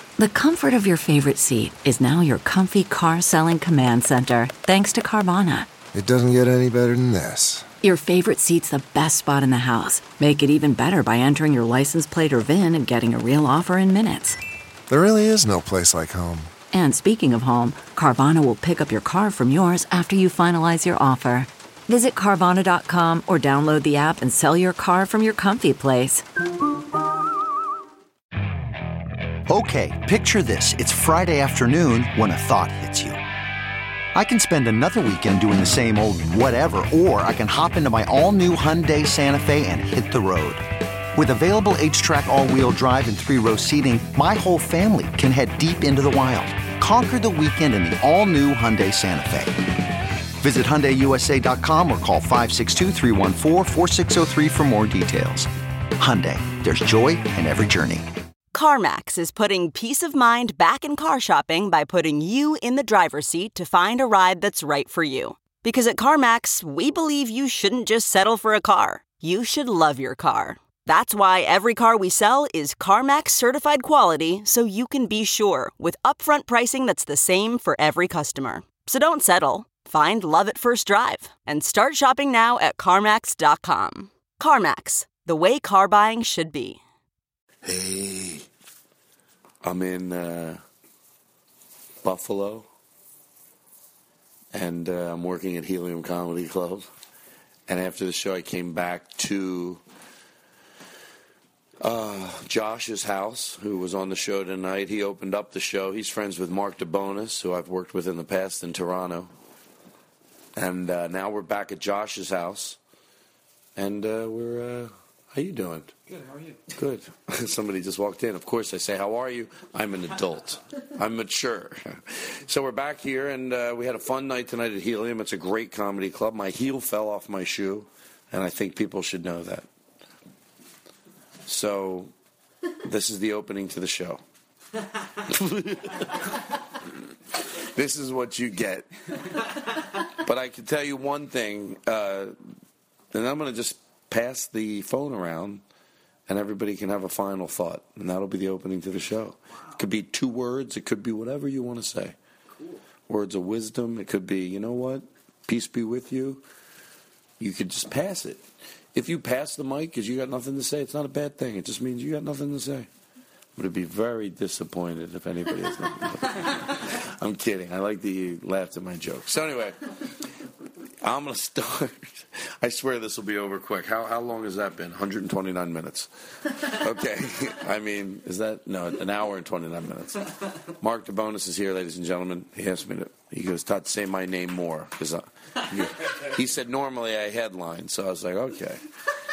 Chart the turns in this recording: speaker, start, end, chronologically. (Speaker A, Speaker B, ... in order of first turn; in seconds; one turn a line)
Speaker A: 0.2-5.7
Speaker B: 5.9-7.7
Speaker A: 7.8-14.4
Speaker B: 14.9-16.5
Speaker A: 16.7-26.2
Speaker C: 29.5-33.2
Speaker C: 34.1-40.6
Speaker C: 41.1-49.5
Speaker C: 50.4-58.0
Speaker D: 58.5-86.8
Speaker E: 87.7-88.4
Speaker E: 89.6-90.6
Speaker E: 92.0-92.7
Speaker E: 94.5-96.9
Speaker E: 97.7-99.8
Speaker E: 101.8-109.3
Speaker E: 110.5-112.8
Speaker E: 113.8-116.0
Speaker E: 116.6-129.7
Speaker E: 131.4-132.1
Speaker E: 132.8-134.2
Speaker E: 135.2-136.0
Speaker E: 137.6-138.9
Speaker E: 140.2-142.3
Speaker E: 143.1-145.6
Speaker E: 146.3-152.1
Speaker E: 153.1-156.4
Speaker E: 157.4-158.4
Speaker E: 158.9-162.9
Speaker E: 163.6-169.8
Speaker E: 171.0-180.3
Speaker E: 180.8-188.8